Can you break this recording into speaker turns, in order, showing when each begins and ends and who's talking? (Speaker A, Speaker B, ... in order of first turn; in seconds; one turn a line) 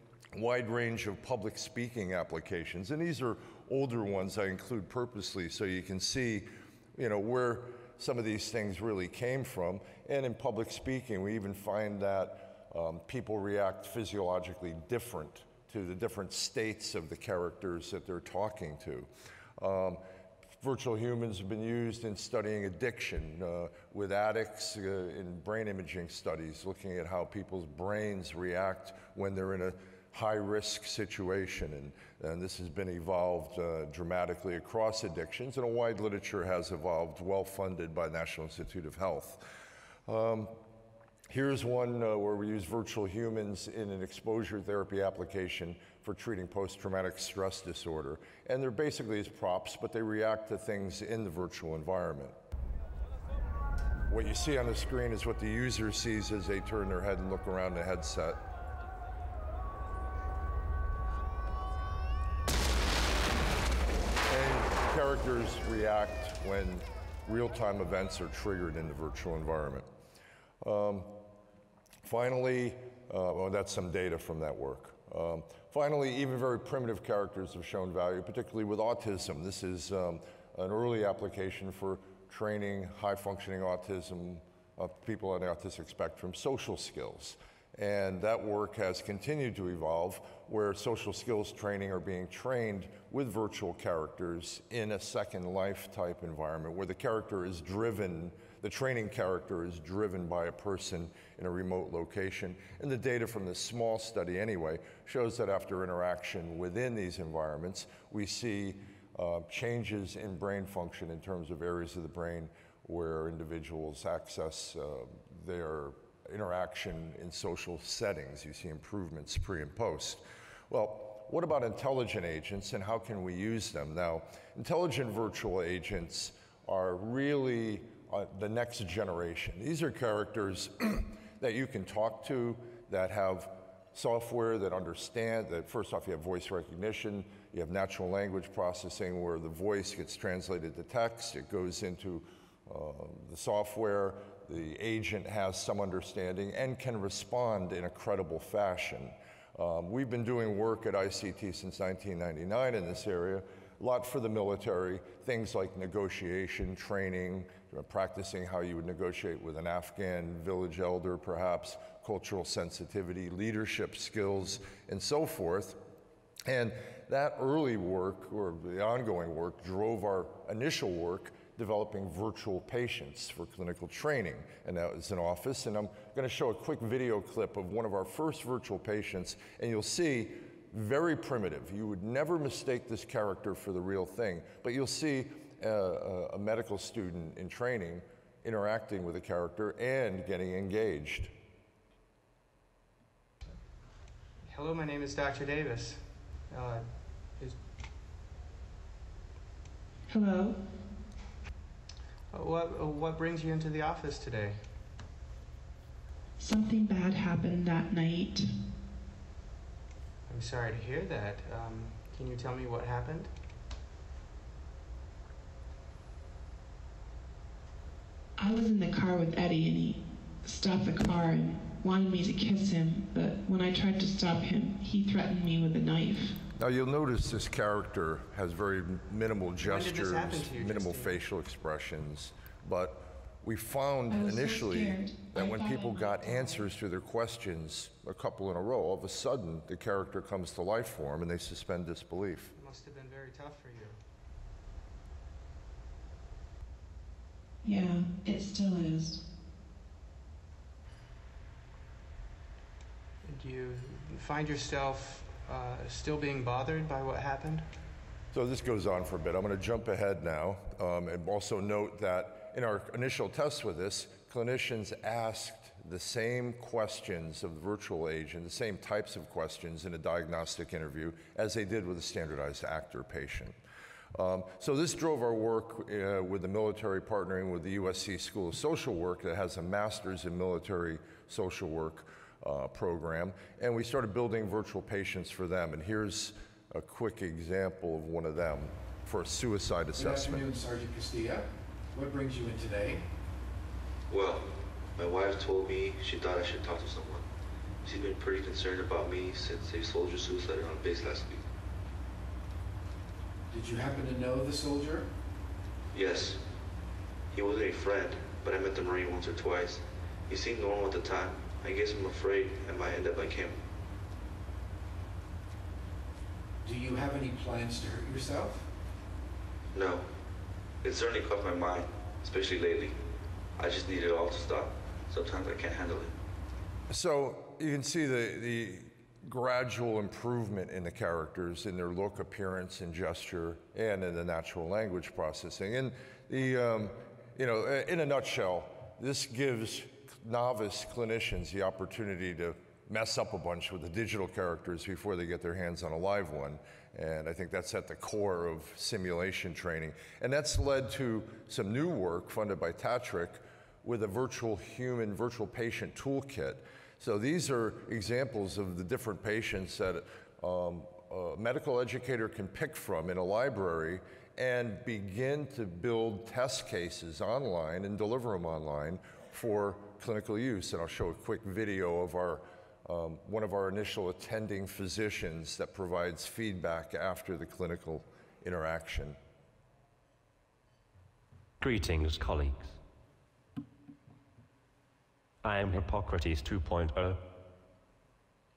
Speaker A: 0.3-20.0
Speaker A: 20.6-39.4
Speaker A: 40.1-40.6
Speaker A: 41.3-52.4
Speaker A: 54.1-58.4
Speaker A: 64.3-69.9
Speaker A: 70.6-71.2
Speaker A: 72.0-165.8
Speaker A: 166.5-191.3
Speaker B: 194.4-197.6
Speaker C: 200.1-200.6
Speaker B: 202.3-204.6
Speaker C: 206.4-208.5
Speaker B: 210.3-213.3
Speaker C: 218.4-226.4
Speaker A: 226.6-242.5
Speaker B: 229.6-231.2
Speaker C: 234.1-236.7
Speaker B: 242.6-244.0
Speaker C: 247.6-249.2
Speaker B: 253.2-257.7
Speaker A: 258.3-273.5
Speaker A: 274.1-290.5
Speaker D: 290.0-293.1
Speaker E: 294.1-297.2
Speaker E: 297.8-301.5
Speaker D: 303.5-305.1
Speaker E: 305.9-306.4
Speaker E: 307.3-313.6
Speaker D: 316.6-318.7
Speaker E: 319.7-320.1
Speaker E: 320.8-323.0
Speaker E: 323.6-326.1
Speaker A: 326.9-379.2
Speaker F: 381.6-382.8
Speaker F: 385.6-387.0